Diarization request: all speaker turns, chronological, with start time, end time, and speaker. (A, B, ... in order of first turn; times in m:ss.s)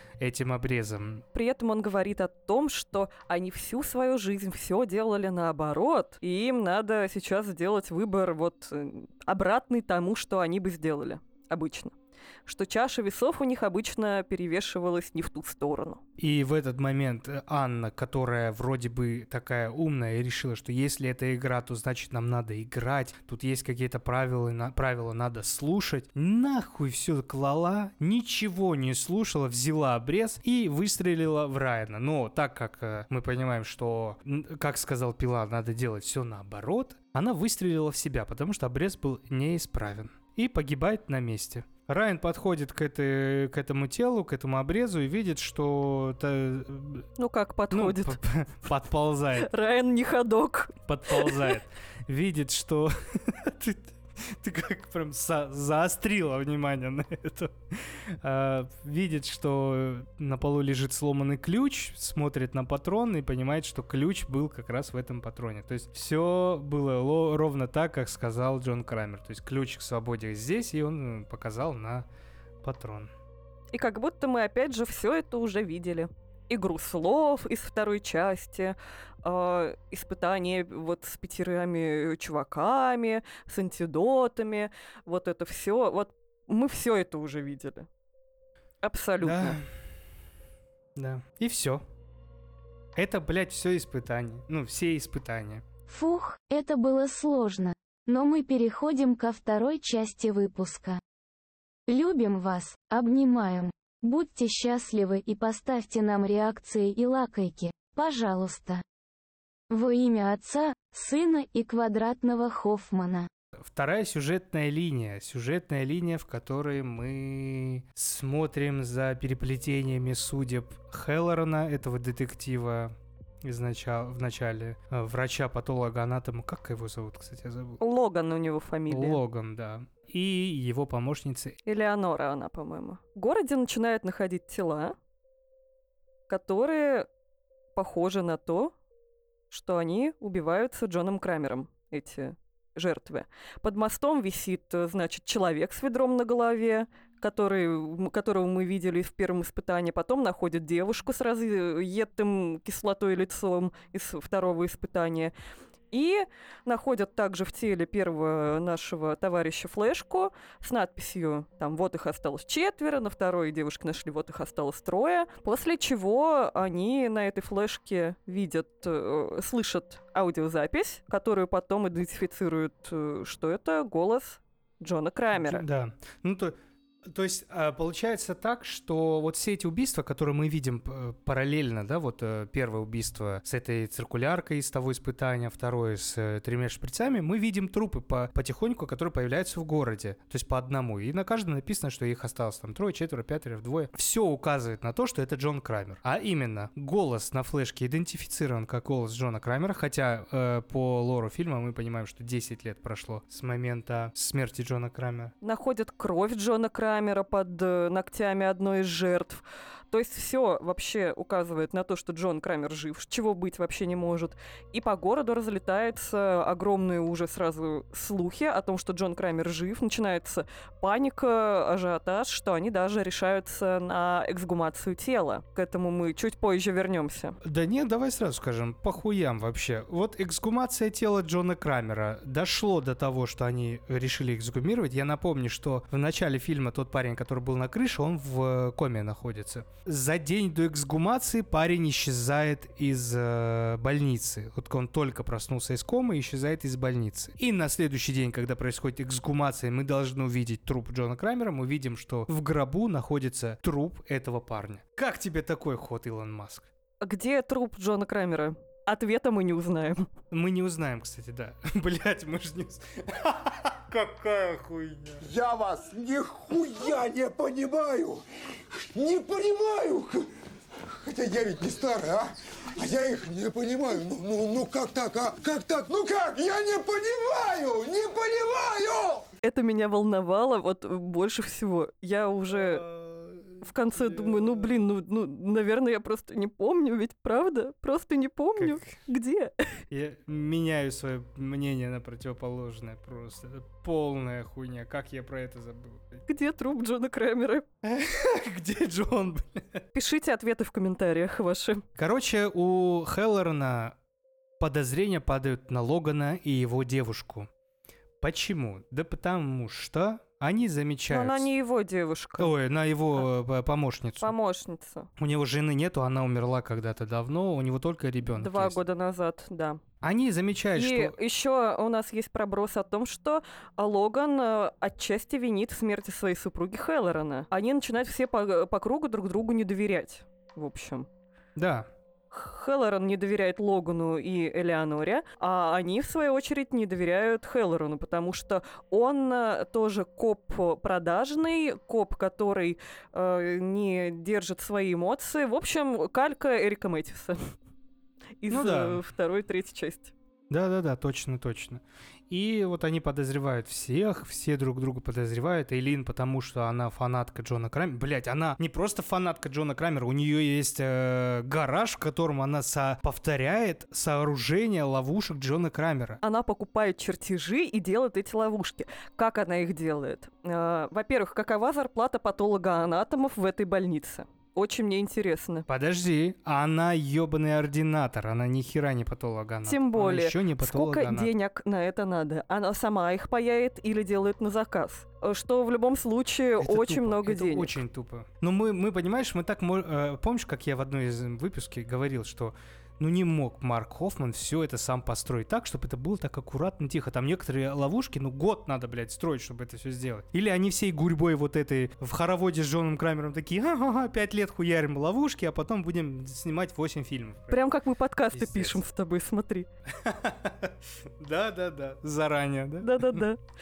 0:00.2-0:01.2 A
0:01.3-0:11.9 B
0:12.4-0:16.0 B
0:16.2-0:47.1 A
0:47.2-0:48.2 B
0:47.7-0:49.5 A
0:49.4-0:51.5 B
0:50.9-1:12.0 A
1:12.6-1:13.1 A
1:13.7-1:27.9 B
1:28.8-1:29.6 B
1:29.2-1:29.7 A
1:30.9-1:31.8 A
1:32.9-1:35.6 A
1:35.9-1:41.0 C
1:41.9-1:48.8 C
1:49.7-1:53.3 C
1:53.6-2:07.8 A
2:07.8-2:09.2 B
2:08.9-2:11.6 A
2:11.6-2:14.9 B
2:16.3-2:17.1 B
2:17.7-2:18.7 B
2:19.5-2:35.3 B
2:35.9-2:55.6 B
2:55.3-3:25.3 A
3:25.4-3:47.4 B
3:47.4-4:16.7 A
4:17.0-4:20.1 B
4:20.3-4:25.2 A
4:25.2-4:28.2 D
4:28.9-4:30.3 D
4:30.9-4:39.2 D
4:39.4-4:42.8 B
4:42.5-4:44.7 A
4:43.6-4:49.5 B
4:48.6-4:49.0 A
4:49.9-4:56.2 A
4:56.3-4:57.6 B
4:57.8-4:59.8 A
4:59.9-5:01.8 B
5:02.0-5:04.0 A
5:04.6-5:07.5 A
5:08.2-5:11.5 A
5:11.1-5:12.5 B
5:12.4-5:14.3 A
5:14.2-5:15.1 B
5:15.2-5:18.8 A
5:18.3-5:19.8 B
5:20.0-5:21.2 A
5:20.7-5:31.1 B
5:31.6-5:31.9 A
5:32.3-5:47.5 B
5:48.4-5:50.1 B
5:48.5-5:49.0 A
5:50.5-6:06.2 A
6:06.2-6:15.6 B
6:15.7-6:21.3 A
6:19.6-6:27.8 B
6:26.6-6:47.6 A
6:47.5-6:49.7 B
6:48.3-6:48.8 A
6:49.9-6:53.2 A
6:52.8-6:53.4 B